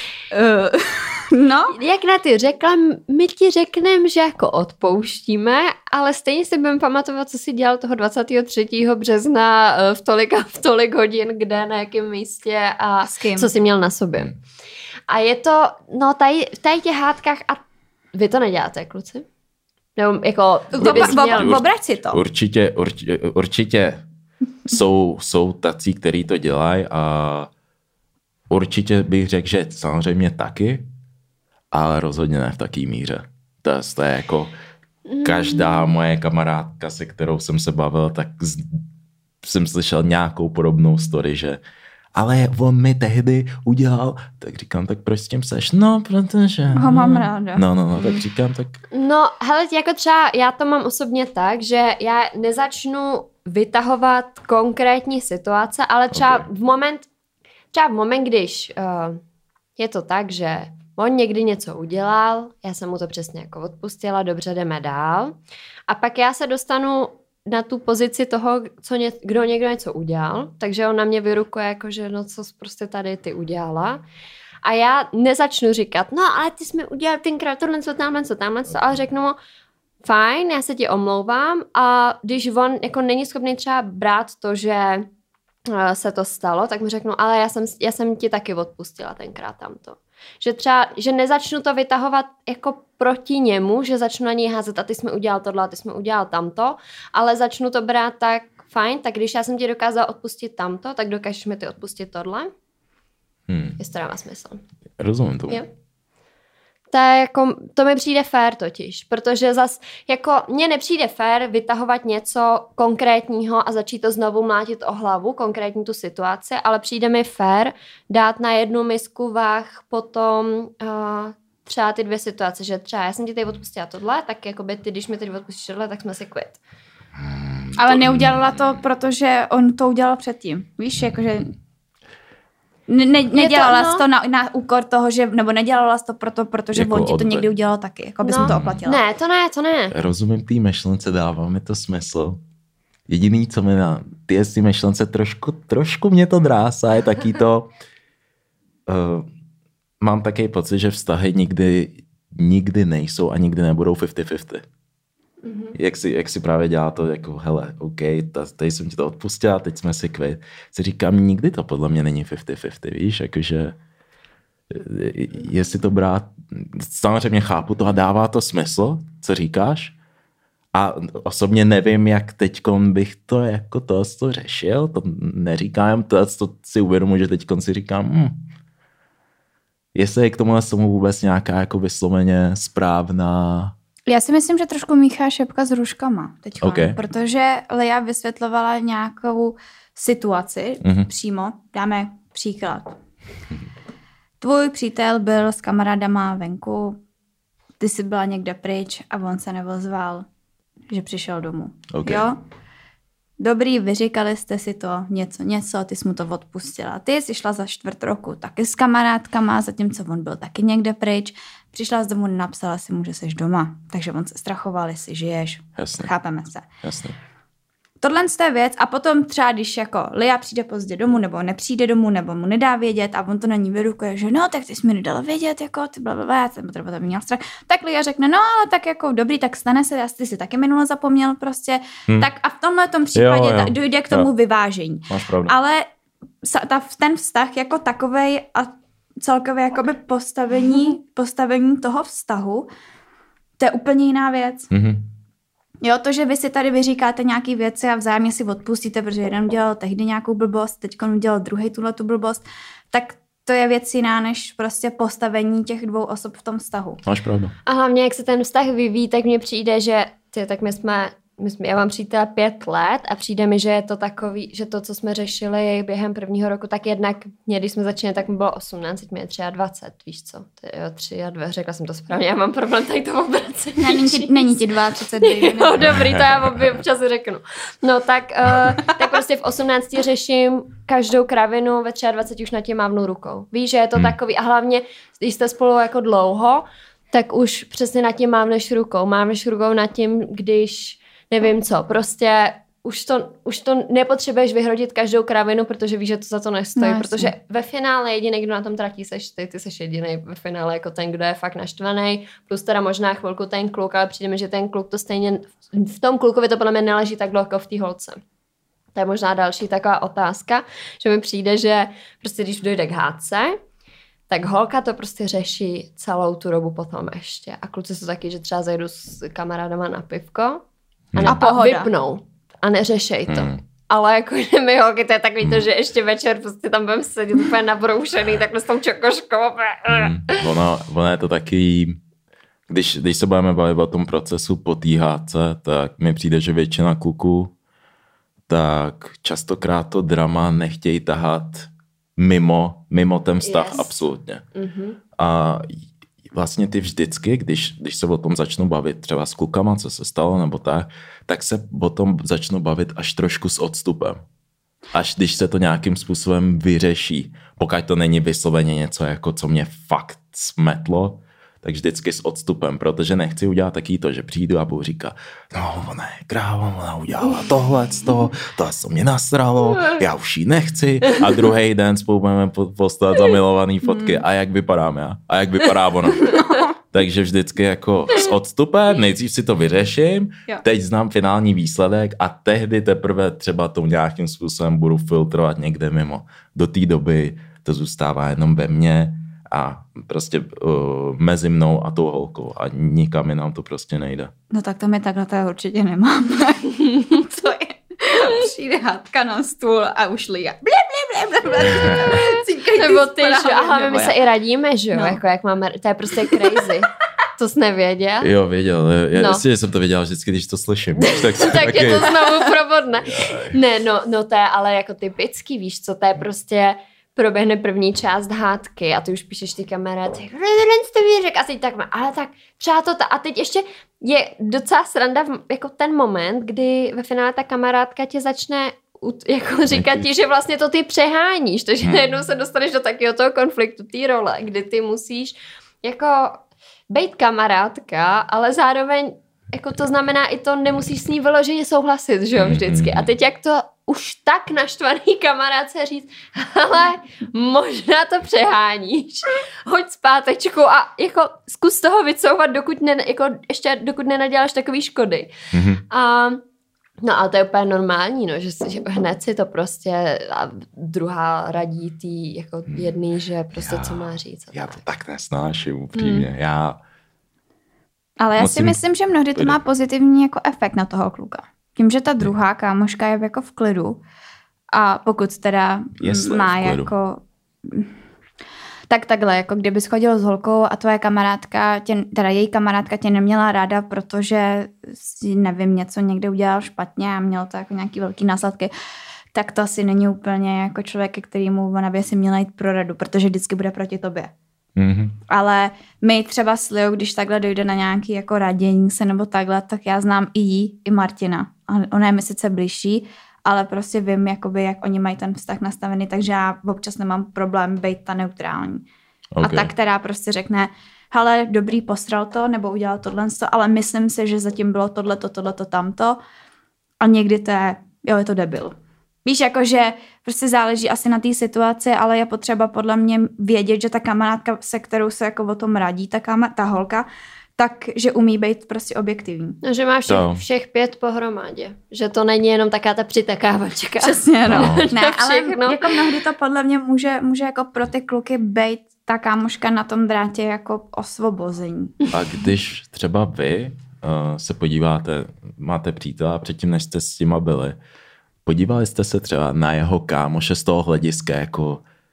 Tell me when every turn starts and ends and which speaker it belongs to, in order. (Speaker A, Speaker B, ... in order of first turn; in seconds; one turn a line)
Speaker A: 0.3-1.7
Speaker B: 1.7-14.3
Speaker A: 13.0-13.5
Speaker B: 15.1-17.6
Speaker B: 18.1-19.3
Speaker B: 20.0-21.6
Speaker A: 20.7-22.2
Speaker C: 20.8-24.1
Speaker C: 24.7-27.5
Speaker C: 28.5-30.9
Speaker C: 31.7-34.5
Speaker B: 35.1-35.9
Speaker C: 35.2-38.8
Speaker C: 39.4-41.6
Speaker C: 42.1-48.8
Speaker A: 46.7-47.7
Speaker B: 48.9-57.1
Speaker C: 56.1-56.5
Speaker B: 57.7-59.2
Speaker B: 59.8-65.4
Speaker B: 65.9-74.0
Speaker B: 74.6-79.4
Speaker B: 80.0-85.1
Speaker B: 85.7-102.5
Speaker C: 103.5-103.8
Speaker B: 103.8-104.6
Speaker C: 105.0-105.6
Speaker B: 106.9-126.6
Speaker C: 127.2-128.8
Speaker A: 127.8-131.6
Speaker A: 132.9-139.0
Speaker B: 133.3-134.1
Speaker C: 136.7-137.5
Speaker B: 138.2-139.9
Speaker C: 138.4-138.8
Speaker C: 139.9-142.4
Speaker C: 143.1-147.7
Speaker C: 148.9-149.3
Speaker C: 150.0-154.6
Speaker B: 155.4-155.8
Speaker C: 155.7-163.8
Speaker C: 164.7-169.9
Speaker C: 170.7-178.4
Speaker C: 179.9-183.7
Speaker A: 184.1-193.0
Speaker C: 186.6-187.0
Speaker C: 190.8-191.1
Speaker A: 194.4-197.0
Speaker A: 197.8-200.3
Speaker A: 200.9-202.4
Speaker C: 201.9-202.3
Speaker A: 203.4-216.7
Speaker C: 215.8-216.1
Speaker C: 216.8-217.2
Speaker A: 218.0-235.9
Speaker C: 233.2-234.3
Speaker C: 235.1-235.5
Speaker A: 236.4-242.7
Speaker A: 243.6-244.7
Speaker C: 244.7-245.1
Speaker A: 245.8-257.0
Speaker C: 257.1-257.5
Speaker B: 257.7-274.7
Speaker A: 273.8-276.0
Speaker B: 275.2-308.2
Speaker C: 275.9-276.8
Speaker A: 296.8-297.3
Speaker B: 308.9-313.6
Speaker B: 314.3-320.6
Speaker B: 321.1-330.5
Speaker A: 321.2-321.9
Speaker C: 323.3-323.6
Speaker C: 325.4-325.7
Speaker C: 329.9-332.0
Speaker C: 332.7-337.5
Speaker C: 338.5-344.4
Speaker B: 343.4-344.0
Speaker B: 344.6-345.0
Speaker C: 345.2-345.8
Speaker C: 346.3-354.2
Speaker C: 354.9-394.3
Speaker A: 373.8-374.2
Speaker A: 376.3-376.7
Speaker A: 394.5-404.2
Speaker C: 401.7-402.2
Speaker B: 402.0-408.3
Speaker A: 404.9-405.2
Speaker C: 408.2-412.3
Speaker B: 409.1-409.4
Speaker B: 411.0-455.3
Speaker C: 413.0-413.6
Speaker C: 429.7-430.1
Speaker C: 442.4-443.1
Speaker C: 455.5-455.8
Speaker B: 455.9-456.4
Speaker B: 457.0-464.8
Speaker C: 463.6-466.8
Speaker B: 465.9-466.3
Speaker A: 468.2-474.0
Speaker C: 468.4-468.8
Speaker A: 474.7-477.9
Speaker C: 476.0-476.9
Speaker A: 478.9-488.7
Speaker A: 489.3-494.3
Speaker C: 494.8-495.1
Speaker A: 495.3-508.9
Speaker C: 509.4-509.7
Speaker A: 509.4-516.2
Speaker A: 517.0-527.1
Speaker A: 527.6-529.6
Speaker B: 529.6-536.1
Speaker C: 530.1-530.4
Speaker A: 534.0-542.0
Speaker C: 534.5-534.9
Speaker C: 542.1-547.8
Speaker C: 548.5-551.8